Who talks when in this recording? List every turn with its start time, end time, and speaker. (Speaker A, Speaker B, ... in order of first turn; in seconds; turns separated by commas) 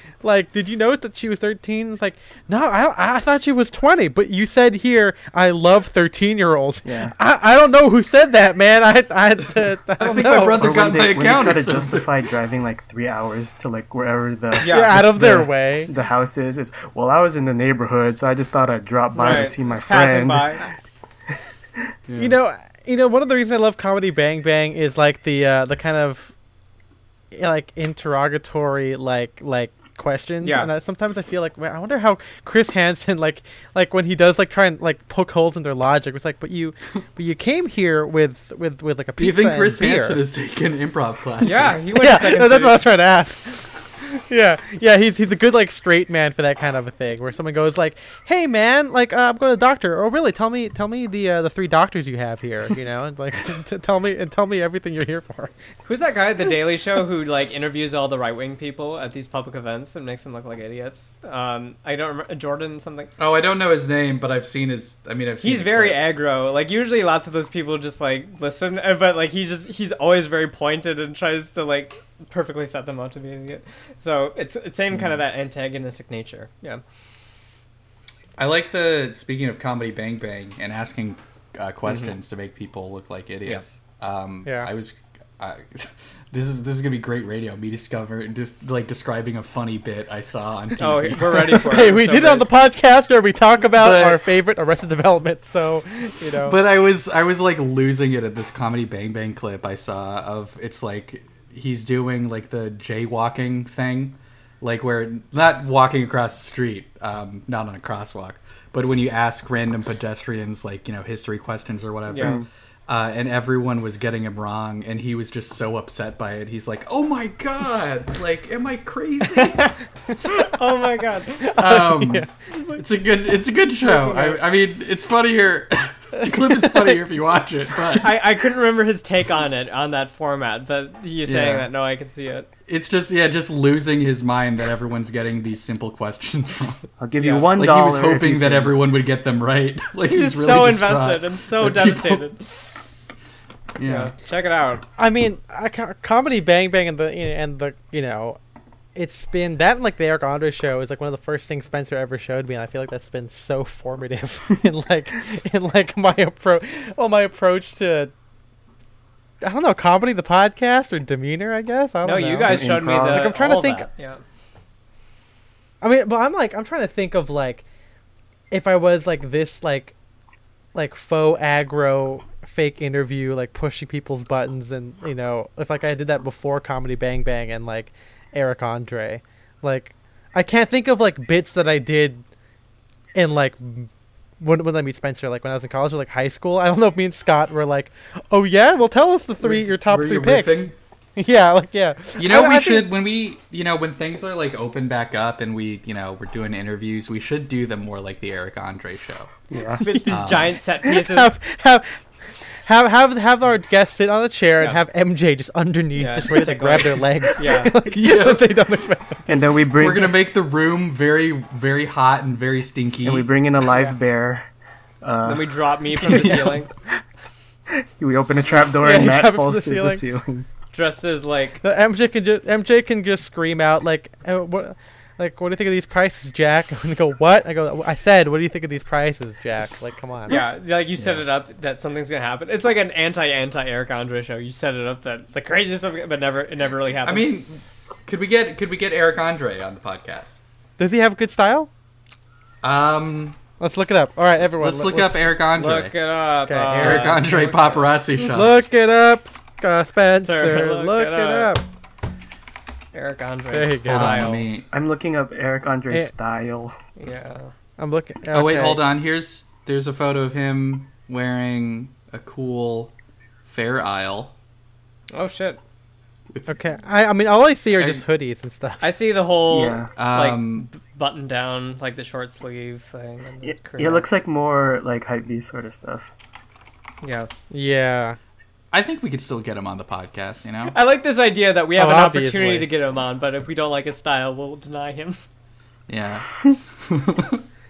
Speaker A: 0.2-10.8, Speaker B: 6.8-7.1, Speaker C: 10.0-12.2, Speaker B: 10.5-20.6, Speaker D: 14.6-15.0, Speaker A: 14.7-15.9, Speaker D: 19.1-20.6, Speaker C: 22.1-22.4, Speaker A: 22.1-26.3, Speaker A: 27.3-40.2, Speaker D: 30.4-30.7, Speaker C: 39.2-41.8, Speaker D: 41.4-42.9, Speaker A: 41.9-55.5, Speaker D: 55.8-63.1, Speaker C: 63.2-66.2, Speaker D: 65.4-76.8, Speaker C: 74.9-75.2, Speaker C: 78.4-91.7, Speaker A: 84.4-84.7, Speaker D: 90.8-92.6, Speaker A: 91.3-96.6, Speaker C: 93.7-94.3, Speaker C: 96.4-119.7, Speaker D: 112.1-112.4, Speaker B: 112.2-112.5, Speaker A: 119.3-120.6, Speaker D: 120.3-121.4, Speaker A: 121.3-122.3, Speaker C: 121.6-128.2, Speaker D: 122.4-122.8, Speaker D: 123.8-124.4, Speaker A: 126.1-127.0, Speaker D: 128.0-132.5, Speaker C: 131.2-131.7, Speaker C: 132.7-136.8, Speaker B: 137.0-138.8, Speaker D: 137.2-137.5, Speaker C: 137.4-142.2, Speaker D: 140.1-142.6, Speaker C: 143.8-144.1, Speaker D: 143.8-144.8, Speaker A: 145.0-148.4, Speaker A: 148.9-158.1, Speaker A: 159.4-163.8, Speaker D: 162.0-164.2, Speaker B: 162.4-163.4, Speaker A: 165.8-167.6, Speaker A: 168.5-169.9, Speaker A: 170.7-182.2, Speaker A: 183.1-183.9, Speaker A: 184.4-192.9, Speaker C: 189.4-190.8, Speaker C: 192.2-199.4, Speaker B: 199.5-199.8, Speaker D: 199.8-201.3, Speaker A: 199.8-209.4, Speaker C: 200.1-200.6, Speaker D: 205.9-207.8, Speaker C: 207.9-208.5, Speaker B: 209.3-210.2, Speaker C: 209.7-213.3, Speaker B: 213.0-214.4, Speaker B: 215.0-216.6, Speaker D: 215.2-216.7, Speaker B: 218.0-220.5, Speaker A: 218.8-220.1, Speaker D: 220.7-221.6, Speaker A: 221.6-230.4, Speaker D: 230.3-237.3, Speaker C: 231.0-231.2, Speaker C: 237.0-240.4, Speaker A: 240.8-241.7, Speaker C: 242.6-243.4, Speaker A: 243.6-245.3, Speaker C: 244.4-245.9, Speaker D: 245.5-247.9, Speaker A: 246.4-247.5, Speaker C: 246.8-248.6, Speaker A: 248.2-251.6, Speaker D: 250.2-251.6, Speaker D: 252.9-254.5, Speaker A: 253.5-254.3, Speaker C: 253.8-254.7, Speaker B: 254.7-256.7, Speaker D: 257.0-257.5, Speaker A: 257.8-258.8, Speaker C: 258.3-262.9, Speaker C: 263.4-264.3, Speaker D: 265.1-265.6, Speaker A: 266.5-268.9, Speaker C: 267.7-268.0, Speaker D: 268.8-274.2, Speaker B: 269.4-269.9, Speaker C: 269.9-270.7, Speaker B: 273.4-276.1, Speaker D: 277.0-277.3, Speaker A: 277.5-278.2, Speaker C: 278.7-280.8, Speaker D: 280.7-285.2, Speaker A: 281.8-282.7, Speaker C: 285.9-287.4